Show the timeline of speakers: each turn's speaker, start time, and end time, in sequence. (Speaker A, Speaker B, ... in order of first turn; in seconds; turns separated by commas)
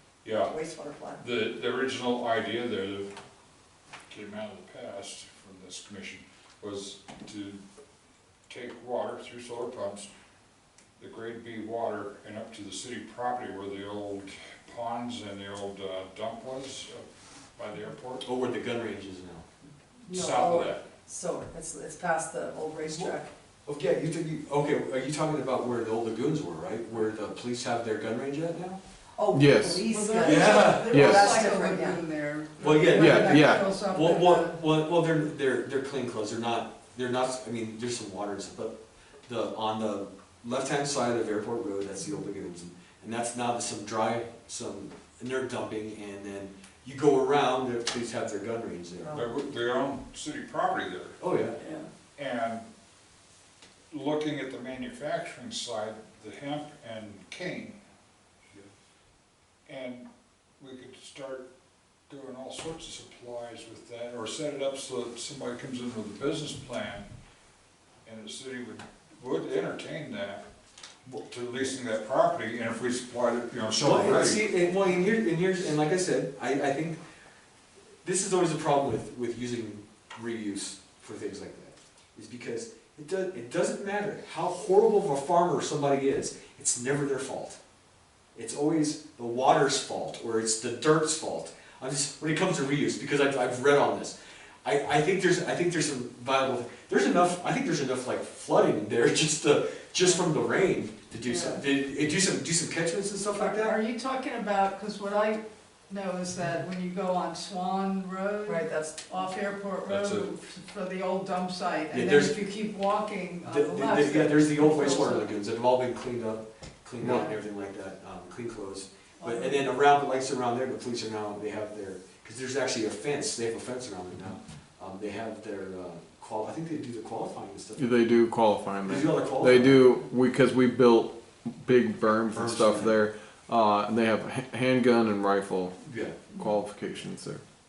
Speaker A: 0.2-0.6, Speaker B: 0.4-1.2, Speaker A: 1.2-3.1, Speaker A: 4.1-7.6, Speaker A: 8.5-10.1, Speaker A: 11.0-17.1, Speaker A: 17.6-18.2, Speaker C: 18.2-19.5, Speaker B: 20.1-23.3, Speaker A: 20.1-20.8, Speaker C: 22.9-23.1, Speaker C: 23.7-28.8, Speaker B: 29.2-32.0, Speaker D: 29.3-29.9, Speaker E: 29.9-34.6, Speaker C: 30.2-31.0, Speaker D: 30.9-31.4, Speaker C: 32.6-49.3, Speaker B: 32.6-32.9, Speaker D: 32.9-33.6, Speaker B: 49.0-49.3, Speaker A: 49.1-51.3, Speaker C: 51.2-51.6, Speaker A: 52.2-52.7, Speaker A: 53.9-57.8, Speaker A: 59.7-60.1, Speaker A: 60.6-61.5, Speaker A: 62.1-67.1, Speaker A: 68.0-70.4, Speaker A: 71.1-74.5, Speaker C: 73.8-77.0, Speaker C: 78.0-87.6, Speaker C: 88.3-103.8, Speaker B: 101.3-101.6, Speaker E: 103.3-115.3, Speaker B: 108.5-109.3, Speaker A: 109.9-110.3, Speaker C: 111.9-112.4, Speaker C: 113.4-128.2, Speaker E: 117.0-117.3, Speaker E: 119.2-119.8, Speaker D: 127.8-135.8, Speaker C: 128.8-130.0, Speaker C: 132.3-133.0, Speaker C: 135.8-136.3, Speaker D: 136.3-137.4